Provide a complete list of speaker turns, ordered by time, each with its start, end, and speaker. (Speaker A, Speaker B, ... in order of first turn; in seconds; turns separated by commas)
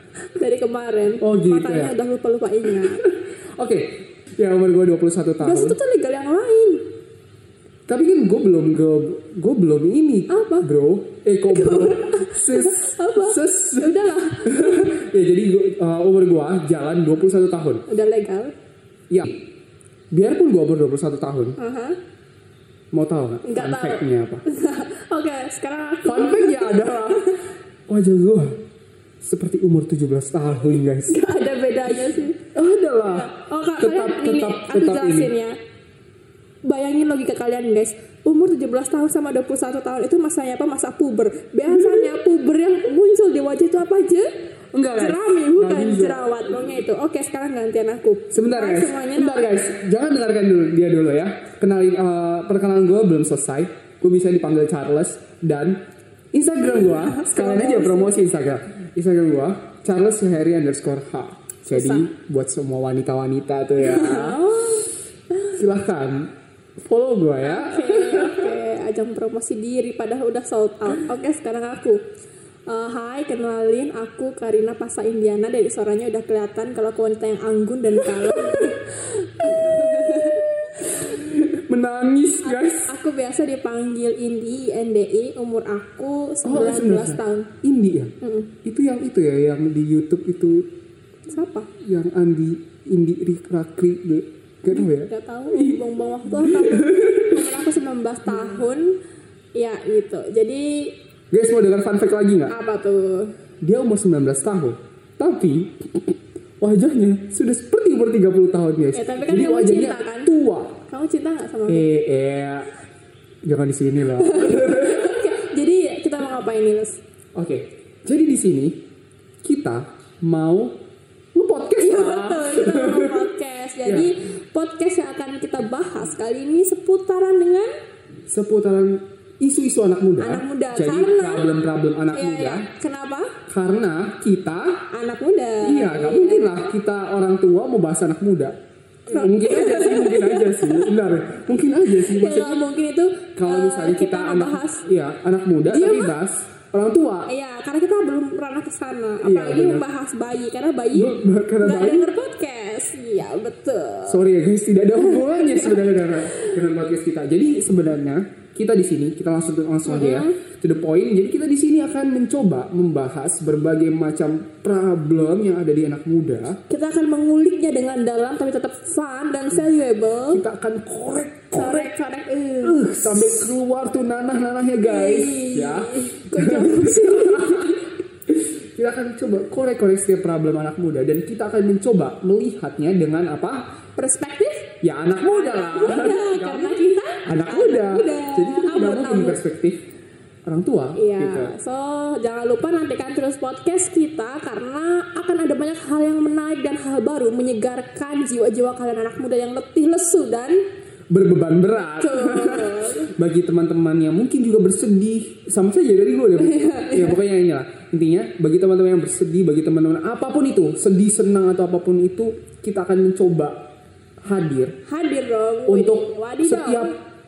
Speaker A: 0.3-3.0, Speaker B: 1.2-1.9, Speaker B: 2.7-5.8, Speaker A: 5.4-6.8, Speaker B: 7.9-17.8, Speaker A: 10.3-10.7, Speaker A: 11.5-14.9, Speaker A: 17.9-18.5, Speaker B: 19.1-19.4, Speaker B: 20.1-21.6, Speaker A: 21.6-22.0, Speaker B: 22.9-24.4, Speaker A: 23.4-27.4, Speaker B: 26.1-27.4, Speaker B: 27.9-28.6, Speaker B: 29.2-31.2, Speaker A: 31.1-32.4, Speaker B: 32.5-35.3, Speaker A: 33.0-35.5, Speaker A: 36.6-44.3, Speaker B: 41.7-42.2, Speaker B: 44.7-46.6, Speaker A: 44.9-49.5, Speaker B: 48.3-64.5, Speaker A: 56.8-58.2, Speaker A: 61.7-62.1, Speaker A: 63.8-64.9, Speaker B: 65.5-68.6, Speaker A: 67.4-72.0, Speaker A: 72.7-81.1, Speaker B: 78.0-78.8, Speaker B: 80.9-83.0, Speaker A: 82.4-87.5, Speaker B: 86.5-88.1, Speaker A: 88.2-88.5, Speaker B: 88.7-90.7, Speaker A: 91.3-91.7, Speaker B: 91.8-97.6, Speaker A: 94.7-99.0, Speaker A: 99.5-100.9, Speaker B: 101.3-102.5, Speaker A: 102.5-103.3, Speaker B: 103.6-110.8, Speaker A: 108.9-110.3, Speaker A: 110.9-111.9, Speaker B: 111.7-112.7, Speaker B: 113.5-115.3, Speaker A: 114.1-117.0, Speaker B: 117.3-118.8, Speaker B: 119.4-120.8, Speaker B: 121.3-123.3, Speaker A: 121.8-127.7, Speaker B: 123.8-124.1, Speaker B: 128.3-132.7, Speaker A: 130.2-131.5, Speaker A: 132.1-133.3, Speaker B: 133.5-134.8, Speaker A: 134.9-136.7, Speaker B: 135.6-138.6, Speaker B: 139.1-142.7, Speaker A: 139.1-140.9, Speaker A: 141.9-144.8, Speaker B: 143.4-147.3, Speaker A: 145.7-146.2, Speaker A: 147.3-154.2, Speaker B: 149.2-149.8, Speaker B: 150.9-152.1, Speaker B: 154.1-166.6, Speaker A: 155.0-156.6, Speaker A: 159.8-160.4, Speaker A: 166.7-170.4, Speaker B: 170.3-171.9, Speaker A: 171.5-173.5, Speaker B: 172.6-183.7, Speaker A: 174.8-177.8, Speaker A: 184.0-189.4, Speaker B: 184.8-189.8, Speaker B: 190.5-191.5, Speaker A: 191.0-200.6, Speaker B: 201.1-213.6, Speaker A: 201.8-203.1, Speaker A: 206.4-207.2, Speaker B: 214.2-214.8, Speaker A: 214.9-216.9, Speaker B: 215.7-217.0